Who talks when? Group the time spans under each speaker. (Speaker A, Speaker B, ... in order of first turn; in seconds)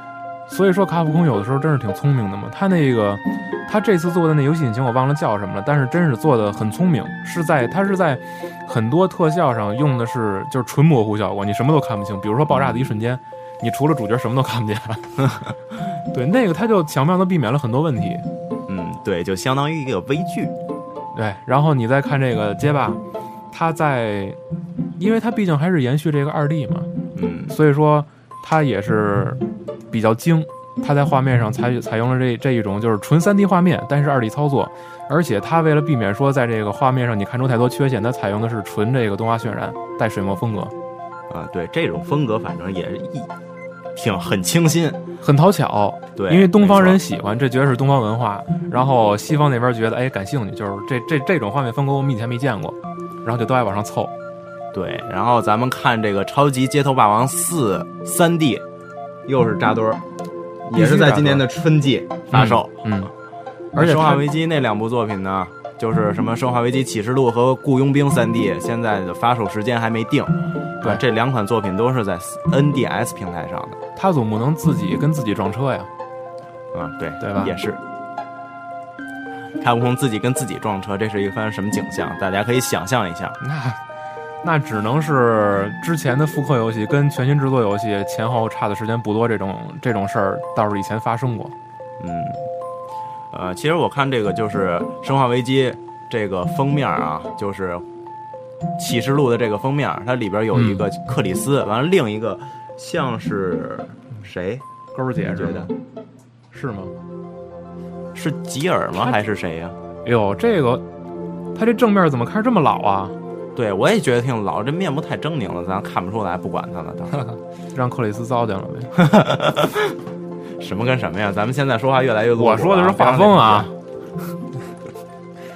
Speaker A: 0.5-15.3, 16.1-18.2, 21.1-23.0, 23.5-24.4, 25.0-26.9, 27.5-40.7, 45.2-54.1, 60.7-61.4, 62.3-63.1, 63.8-64.2, 74.0-75.9, 77.2-77.5, 83.4-83.8, 84.4-91.5, 100.5-100.8, 104.9-105.7, 106.5-106.9, 110.0-110.8, 111.5-113.2, 117.7-118.9, 122.4-123.7
Speaker B: 18.7-20.6, 27.1-27.6, 41.3-43.3, 44.0-45.0, 46.2-47.0, 54.7-58.6, 59.3-60.0, 60.7-62.7, 63.8-73.8, 76.7-77.8, 79.6-83.4, 92.0-92.4, 93.3-97.8, 98.8-104.6, 105.4-105.7, 108.1-109.8, 113.5-117.3, 119.0-119.9, 120.6-123.7